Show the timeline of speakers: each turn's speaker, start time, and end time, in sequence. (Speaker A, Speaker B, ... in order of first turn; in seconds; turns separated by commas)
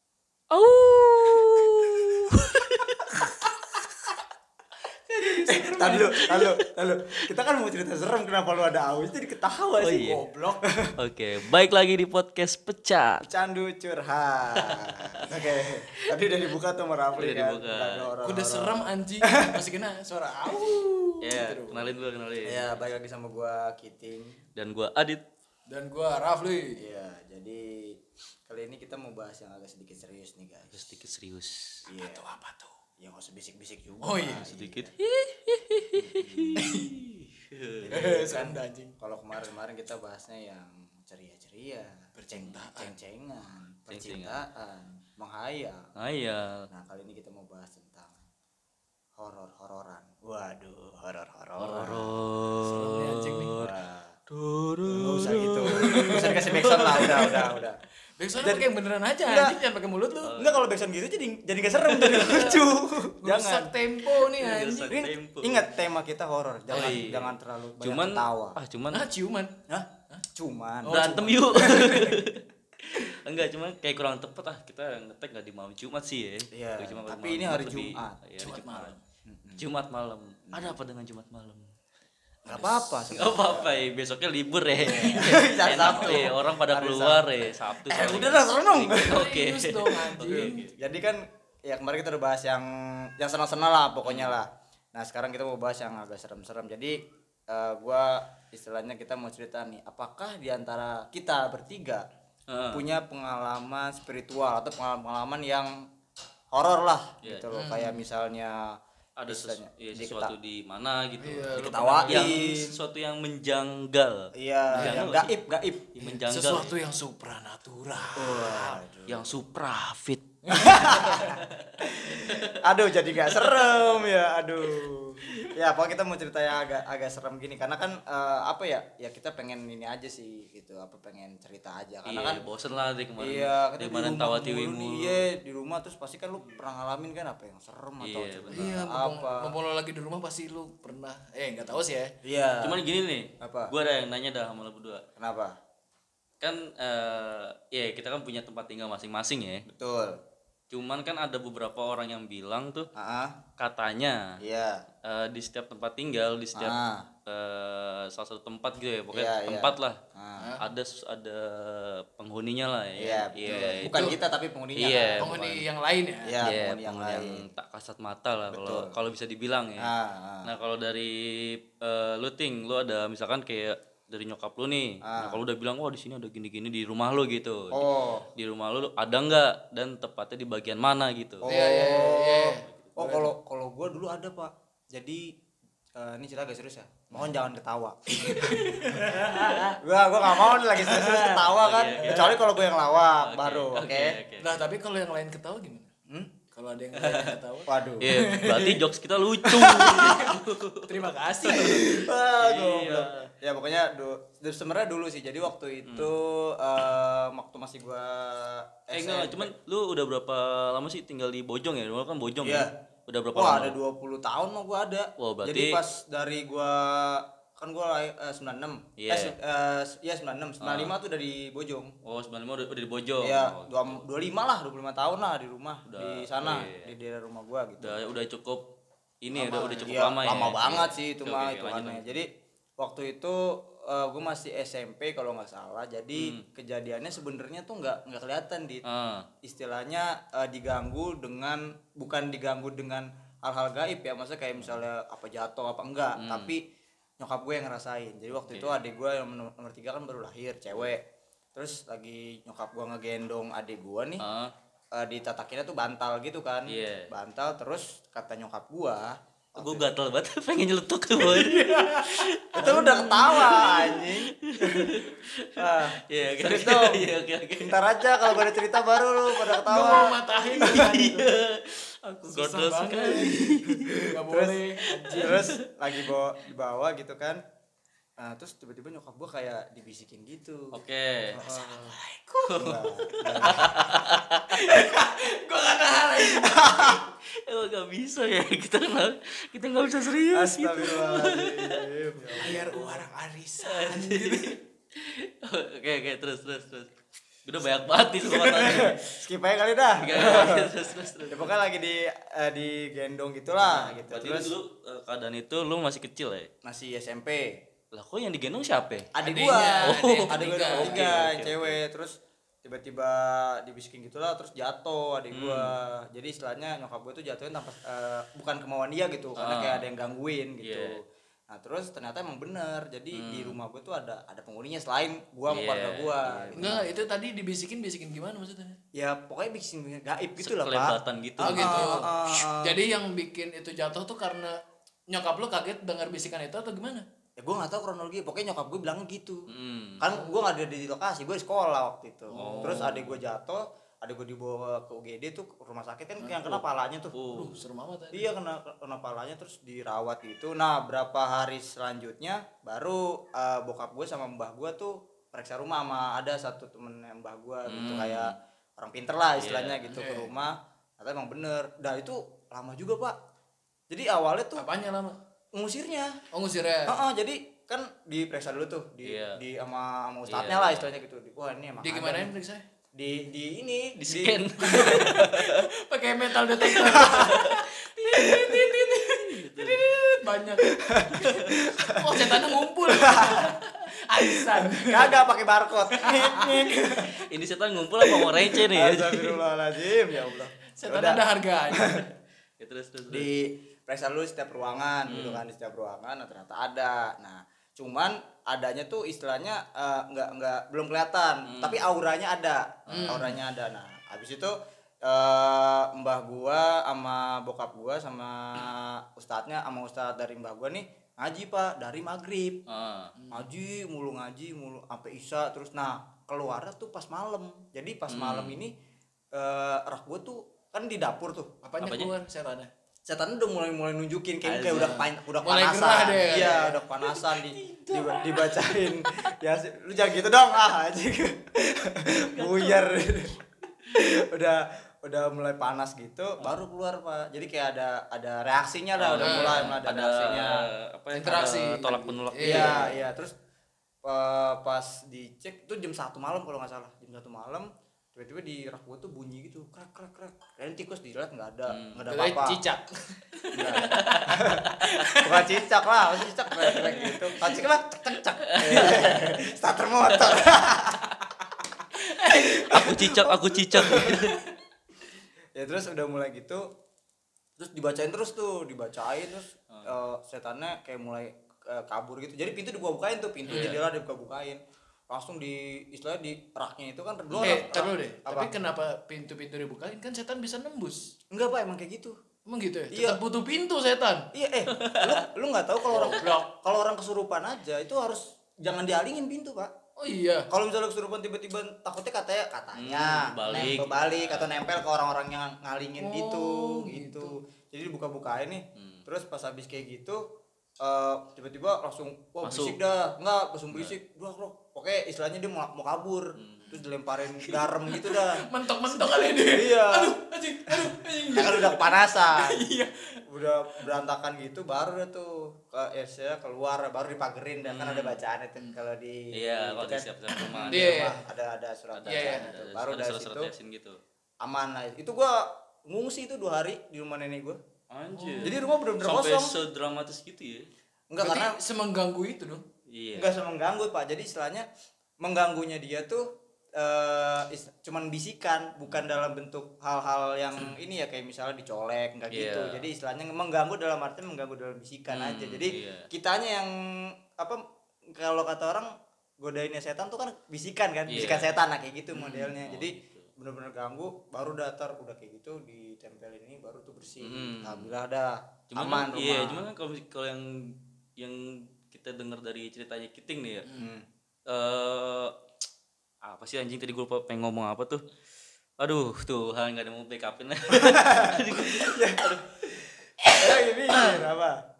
Speaker A: 0.5-3.3, Speaker B: 5.1-6.2, Speaker C: 5.5-10.9, Speaker A: 5.9-6.5, Speaker A: 9.8-10.2, Speaker B: 10.0-10.6, Speaker A: 11.0-13.2, Speaker C: 13.2-19.6, Speaker A: 14.5-15.3, Speaker A: 17.2-18.1, Speaker B: 18.2-21.9, Speaker A: 21.2-22.7, Speaker C: 22.4-24.4, Speaker A: 24.6-25.2, Speaker B: 25.7-26.8, Speaker C: 26.8-30.8, Speaker A: 30.7-31.9, Speaker C: 31.9-32.2, Speaker B: 32.0-32.8, Speaker C: 33.0-34.9, Speaker B: 34.0-34.5, Speaker A: 34.5-37.9, Speaker C: 35.9-36.7, Speaker B: 36.6-36.9, Speaker C: 37.8-45.9, Speaker B: 37.9-39.0, Speaker B: 42.1-42.9, Speaker A: 43.9-44.3, Speaker A: 46.0-46.6, Speaker C: 46.7-48.2, Speaker C: 49.2-52.2, Speaker A: 51.6-53.7, Speaker B: 52.6-53.5, Speaker C: 53.5-54.1, Speaker A: 54.3-57.3, Speaker C: 54.9-57.8, Speaker B: 55.6-57.5, Speaker B: 58.2-60.4, Speaker C: 58.4-58.7, Speaker C: 59.2-59.6, Speaker A: 60.2-60.7, Speaker C: 60.4-63.8, Speaker B: 61.9-65.0, Speaker A: 62.0-62.5, Speaker A: 64.4-65.7, Speaker C: 64.8-68.6, Speaker A: 66.7-69.1, Speaker B: 66.7-67.0, Speaker B: 68.9-70.2, Speaker C: 69.7-72.0, Speaker B: 70.8-72.2, Speaker A: 70.9-78.9, Speaker C: 76.5-78.2, Speaker B: 78.4-79.0, Speaker C: 79.3-79.6, Speaker A: 79.6-81.7, Speaker C: 80.5-80.8, Speaker C: 82.4-83.8, Speaker B: 82.5-82.8, Speaker A: 83.1-90.8, Speaker C: 84.7-89.3, Speaker B: 85.9-86.1, Speaker B: 89.0-90.6, Speaker C: 90.2-97.0, Speaker A: 94.0-94.3, Speaker C: 97.5-102.0, Speaker A: 102.5-102.8, Speaker C: 102.7-105.8, Speaker C: 106.5-108.8, Speaker B: 107.5-108.0, Speaker A: 109.2-115.4, Speaker C: 109.3-110.3, Speaker B: 111.2-112.4, Speaker C: 111.5-112.6, Speaker C: 114.3-116.0, Speaker B: 114.8-115.1, Speaker A: 115.9-116.7, Speaker B: 116.0-118.8, Speaker C: 118.2-119.4, Speaker A: 119.1-120.2, Speaker B: 120.5-121.3, Speaker C: 120.5-132.4, Speaker A: 121.1-122.6, Speaker B: 122.0-122.5, Speaker A: 123.3-123.9, Speaker A: 132.1-135.2, Speaker C: 133.2-139.5, Speaker A: 138.0-138.7, Speaker B: 138.5-142.1, Speaker C: 142.2-142.8, Speaker A: 142.6-145.1, Speaker C: 143.4-143.7, Speaker C: 145.2-145.6, Speaker A: 146.4-149.6, Speaker C: 149.7-150.2, Speaker A: 150.7-152.9, Speaker C: 152.9-153.4, Speaker A: 153.6-154.4, Speaker C: 154.4-154.8, Speaker A: 155.0-156.8, Speaker C: 156.5-157.1, Speaker A: 157.3-160.0, Speaker C: 159.1-160.5, Speaker A: 160.6-164.1, Speaker C: 163.0-165.6, Speaker B: 163.5-164.2, Speaker A: 164.8-165.3, Speaker B: 165.2-166.3, Speaker C: 166.2-167.5, Speaker A: 166.4-169.9, Speaker C: 168.5-168.9, Speaker C: 169.8-170.5, Speaker A: 170.4-181.5, Speaker C: 175.0-175.4, Speaker C: 177.7-178.3, Speaker C: 181.4-185.3, Speaker B: 181.5-183.3, Speaker A: 182.6-183.0, Speaker C: 185.9-194.2, Speaker B: 188.1-189.8, Speaker B: 190.3-191.3, Speaker A: 191.0-192.7, Speaker B: 192.0-192.2, Speaker A: 193.2-194.5, Speaker B: 194.4-195.9, Speaker B: 196.5-198.7, Speaker A: 197.0-197.3, Speaker C: 197.7-198.8, Speaker A: 198.0-200.9, Speaker B: 199.4-202.1, Speaker C: 199.7-200.4, Speaker C: 201.5-209.5, Speaker A: 201.5-203.3, Speaker A: 205.8-206.1, Speaker A: 208.9-213.8, Speaker C: 212.4-212.7, Speaker C: 213.3-221.9, Speaker A: 215.2-215.8, Speaker A: 219.0-219.3, Speaker A: 220.6-220.9, Speaker A: 222.0-224.0, Speaker C: 223.2-228.0, Speaker A: 225.9-226.9, Speaker A: 227.8-228.6, Speaker A: 229.2-232.1, Speaker C: 229.3-232.3, Speaker C: 232.8-238.8, Speaker A: 236.1-236.4, Speaker A: 238.8-239.3, Speaker C: 239.4-246.6, Speaker A: 246.2-246.5, Speaker C: 247.2-251.0, Speaker A: 248.4-248.8, Speaker C: 251.5-254.2, Speaker A: 254.2-254.5, Speaker C: 254.9-259.9, Speaker A: 256.7-257.1, Speaker A: 259.6-268.6, Speaker B: 261.2-263.9, Speaker C: 262.5-265.0, Speaker C: 265.6-270.1, Speaker A: 269.3-274.1, Speaker B: 269.6-271.3, Speaker B: 272.2-275.4, Speaker C: 274.2-274.6, Speaker A: 275.0-276.1, Speaker C: 275.2-277.4, Speaker C: 278.2-280.7, Speaker A: 280.7-281.4, Speaker C: 281.3-282.0, Speaker B: 281.4-287.0, Speaker A: 282.5-282.8, Speaker C: 282.6-284.0, Speaker A: 283.4-284.8, Speaker C: 286.4-287.0, Speaker A: 287.2-291.9, Speaker C: 290.3-293.0, Speaker B: 292.3-294.6, Speaker A: 293.6-296.9, Speaker A: 297.4-299.0, Speaker C: 298.4-300.7, Speaker A: 300.0-301.5, Speaker C: 301.3-304.5, Speaker A: 303.6-306.5, Speaker C: 306.6-307.5, Speaker A: 307.9-309.1, Speaker C: 309.1-326.9, Speaker B: 309.2-311.0, Speaker A: 309.8-311.8, Speaker A: 315.3-315.7, Speaker A: 319.4-319.9, Speaker A: 320.6-321.0, Speaker A: 323.1-323.6, Speaker A: 325.5-326.8, Speaker B: 326.6-328.8, Speaker C: 328.9-332.8, Speaker A: 330.4-332.0, Speaker B: 331.4-332.1, Speaker B: 332.6-334.6, Speaker B: 335.1-337.0, Speaker C: 337.4-339.5, Speaker A: 339.5-340.1, Speaker C: 340.0-347.1, Speaker B: 342.3-343.0, Speaker A: 342.4-343.2, Speaker A: 346.4-346.6, Speaker A: 347.1-347.6, Speaker B: 347.3-348.3, Speaker C: 348.1-363.2, Speaker A: 357.6-358.3, Speaker A: 359.4-359.9, Speaker B: 359.9-360.3, Speaker C: 363.9-364.6, Speaker B: 364.6-365.1, Speaker C: 365.5-366.2, Speaker B: 366.3-367.0, Speaker C: 366.9-372.3, Speaker A: 369.0-369.4, Speaker A: 370.3-370.9, Speaker B: 371.8-372.6, Speaker C: 372.9-375.1, Speaker A: 374.0-375.6, Speaker B: 374.7-385.2, Speaker A: 376.6-377.6, Speaker C: 376.8-377.4, Speaker A: 378.8-379.9, Speaker C: 380.7-383.5, Speaker A: 381.3-381.5, Speaker C: 384.5-387.1, Speaker B: 385.9-387.0, Speaker A: 387.2-389.4, Speaker C: 388.4-391.2, Speaker B: 390.8-392.1, Speaker A: 392.6-393.3, Speaker C: 393.1-404.5, Speaker A: 395.1-395.4, Speaker A: 401.4-401.8, Speaker A: 402.9-403.3, Speaker B: 402.9-403.4, Speaker C: 405.0-412.6, Speaker A: 412.7-413.1, Speaker B: 413.1-413.4, Speaker C: 413.3-418.7, Speaker A: 418.1-418.6, Speaker C: 419.3-421.5, Speaker B: 421.6-422.7, Speaker A: 421.8-422.1, Speaker C: 423.1-433.4, Speaker A: 424.4-425.0, Speaker B: 424.7-426.8, Speaker A: 427.0-429.3, Speaker A: 432.2-432.9, Speaker C: 433.9-440.6, Speaker A: 439.0-443.0, Speaker B: 439.2-439.7, Speaker B: 441.1-442.8, Speaker C: 442.4-443.3, Speaker C: 444.0-452.6, Speaker A: 451.7-452.0, Speaker B: 452.1-455.5, Speaker C: 453.5-454.7, Speaker A: 453.7-455.0, Speaker C: 455.2-464.3, Speaker B: 456.6-457.2, Speaker A: 458.4-459.2, Speaker B: 462.0-462.8, Speaker A: 462.6-464.4, Speaker B: 464.0-464.4, Speaker C: 465.5-466.7, Speaker C: 467.6-478.5, Speaker A: 473.5-473.8, Speaker B: 473.5-473.8, Speaker A: 477.3-477.7, Speaker B: 477.4-481.1, Speaker C: 481.3-482.2, Speaker B: 482.5-484.3, Speaker C: 482.9-483.2, Speaker C: 484.3-489.7, Speaker A: 484.7-485.2, Speaker B: 485.9-486.5, Speaker B: 490.0-490.5, Speaker C: 490.5-500.2, Speaker A: 492.7-494.6, Speaker B: 493.5-493.8, Speaker B: 496.0-497.4, Speaker A: 498.8-499.0, Speaker C: 500.8-508.4, Speaker A: 502.4-502.8, Speaker A: 506.4-506.7, Speaker B: 507.4-512.9, Speaker C: 509.5-510.1, Speaker C: 510.7-512.6, Speaker C: 513.3-523.5, Speaker A: 517.7-518.2, Speaker A: 519.3-521.1, Speaker B: 520.7-521.2, Speaker A: 521.9-524.0, Speaker B: 522.1-522.5, Speaker C: 524.4-527.6, Speaker A: 527.9-530.7, Speaker B: 528.1-528.7, Speaker C: 528.4-529.5, Speaker C: 531.1-531.6, Speaker B: 531.2-532.6, Speaker A: 532.9-533.4, Speaker C: 533.1-534.6, Speaker C: 535.2-547.6, Speaker A: 542.3-542.8, Speaker A: 545.1-546.1, Speaker C: 548.1-559.7, Speaker A: 551.1-551.5, Speaker B: 552.1-552.5, Speaker A: 552.5-553.3, Speaker A: 557.2-557.9, Speaker A: 558.7-563.7, Speaker B: 563.6-563.9, Speaker C: 563.8-564.0, Speaker A: 564.5-565.3, Speaker A: 566.2-568.0, Speaker A: 568.8-572.4, Speaker C: 570.7-574.6, Speaker A: 573.2-574.2